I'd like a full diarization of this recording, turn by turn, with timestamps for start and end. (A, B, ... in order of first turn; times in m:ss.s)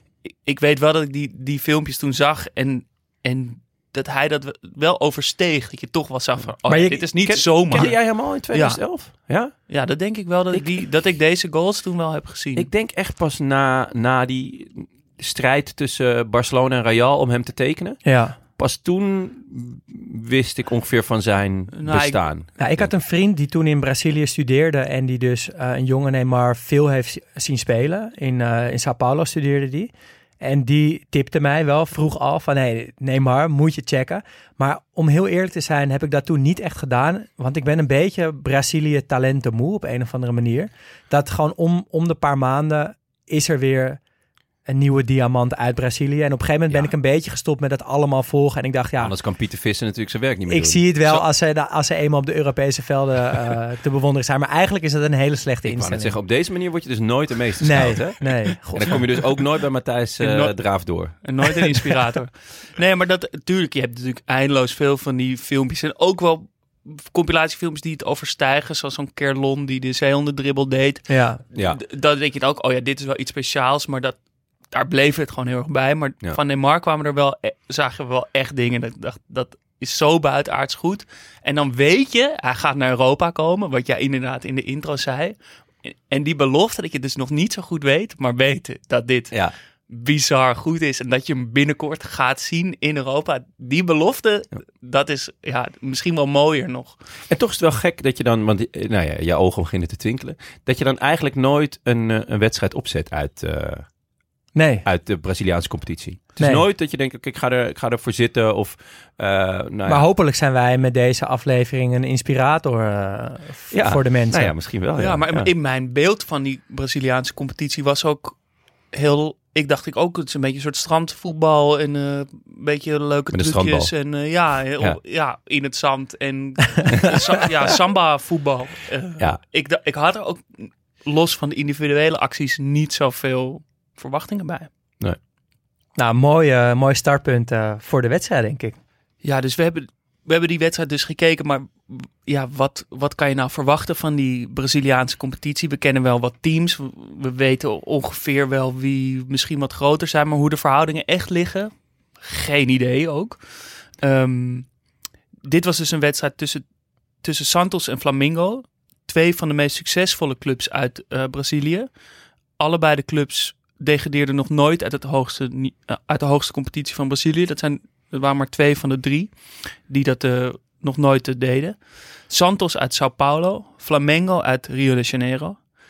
0:00.2-0:12.7 A
0:06.7-0:07.1 B
0:07.2-0:09.8 C
0:10.5-0:10.8 C
0:12.6-0:22.9 C
0:18.0-0:18.4 B
0:21.7-0:22.2 A
0:22.6-0:44.0 B
0:44.7-0:49.1 B
0:49.0-0:51.2 C
0:50.5-0:56.2 B
0:55.6-1:01.2 C
0:57.6-0:59.2 B
1:00.2-1:00.5 A
1:01.1-1:14.2 A
1:11.1-1:11.4 B
1:14.7-1:29.3 A
1:29.9-1:37.0 A
1:37.3-1:43.9 C
1:44.5-1:44.8 B
1:44.8-1:50.0 C
1:46.4-1:46.6 B
1:49.8-1:54.5 B
1:53.7-1:55.5 C
1:55.0-1:58.4 A
1:58.9-2:14.7 A
2:03.3-2:03.9 C
2:16.0-2:18.8 B
2:19.2-2:33.4 A
2:34.0-2:34.7 A
2:35.4-2:36.6 A
2:37.2-2:41.9 A
2:42.6-2:55.6 A